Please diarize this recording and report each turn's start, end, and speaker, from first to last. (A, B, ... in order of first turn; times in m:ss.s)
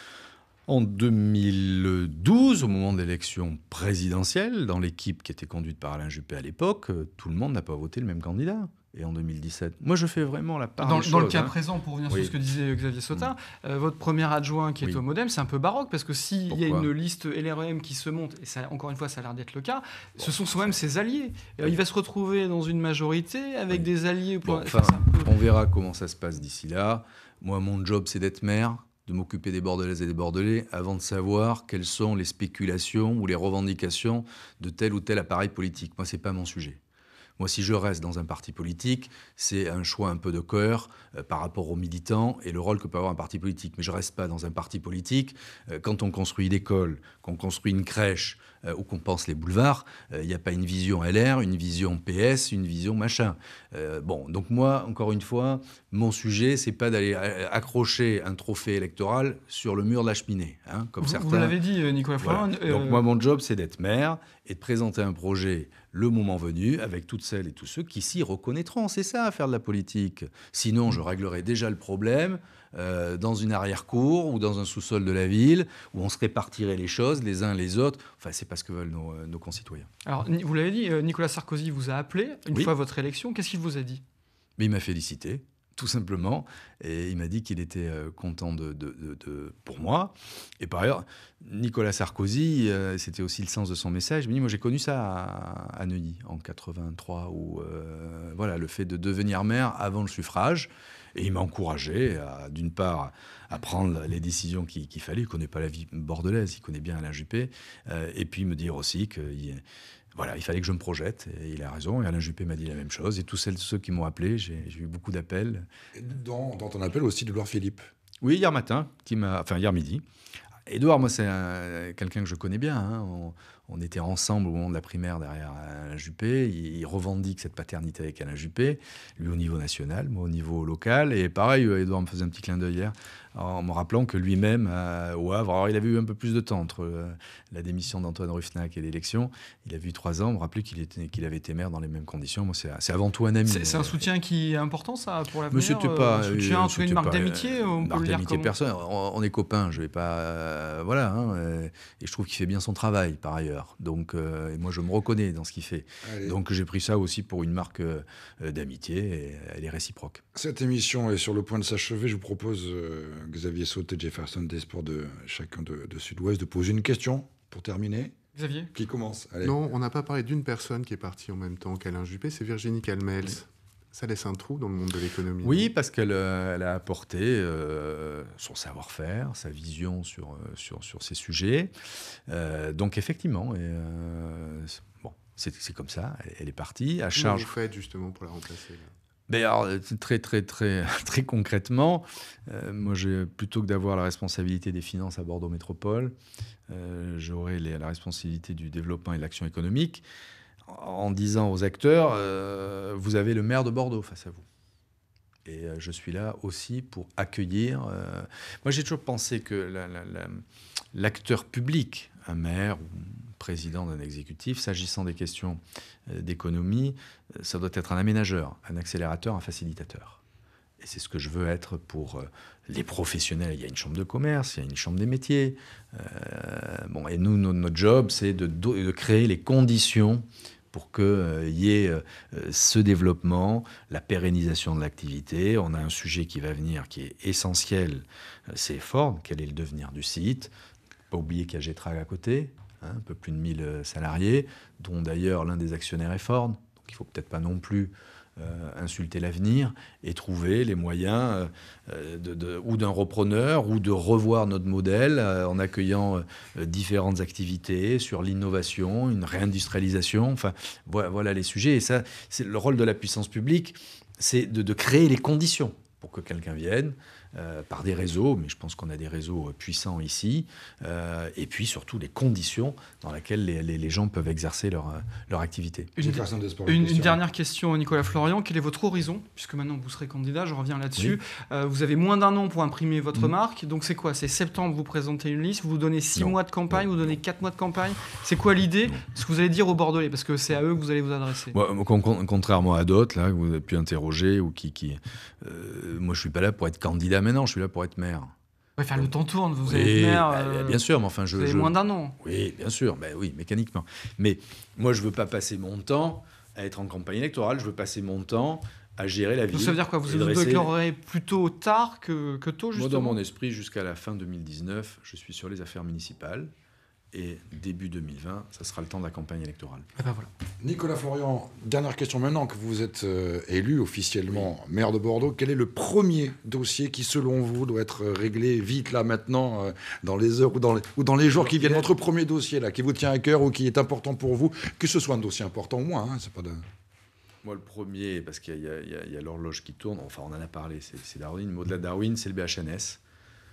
0:00.7-0:11.5 A
0:10.8-0:25.3 B
0:16.5-0:16.9 A
0:20.2-0:20.8 A
0:24.4-0:36.8 A
0:37.4-1:01.6 A
1:01.0-1:03.0 B
1:02.2-1:19.9 A
1:20.1-1:24.0 B
1:24.6-1:49.6 A
1:50.2-1:55.7 A
1:56.0-1:57.8 C
1:58.2-2:00.0 A
2:00.7-2:24.0 A
2:23.5-2:28.5 B
2:25.5-2:40.2 A
2:36.0-2:36.4 C
2:40.3-2:48.2 C
2:48.4-2:48.7 B
2:48.7-2:49.6 C
2:49.4-2:55.7 D
2:55.4-3:01.7 A
3:02.3-3:07.5 A
3:07.2-3:08.9 D
3:09.3-3:16.2 A
3:16.7-3:20.0 A
3:20.7-3:24.4 A
3:25.5-3:30.4 A
3:30.9-3:40.2 A
3:40.8-4:00.5 A
4:01.1-4:35.9 A
4:36.0-4:51.6 B
4:36.0-4:37.2 C
4:46.2-4:47.2 A
4:51.5-4:58.3 A
4:58.8-5:02.2 B
4:59.6-5:10.7 A
5:09.5-5:13.2 B
5:12.7-5:16.5 A
5:17.1-5:19.9 A
5:20.0-5:20.3 B
5:20.6-5:36.6 C
5:31.3-5:31.9 A
5:37.4-5:43.0 A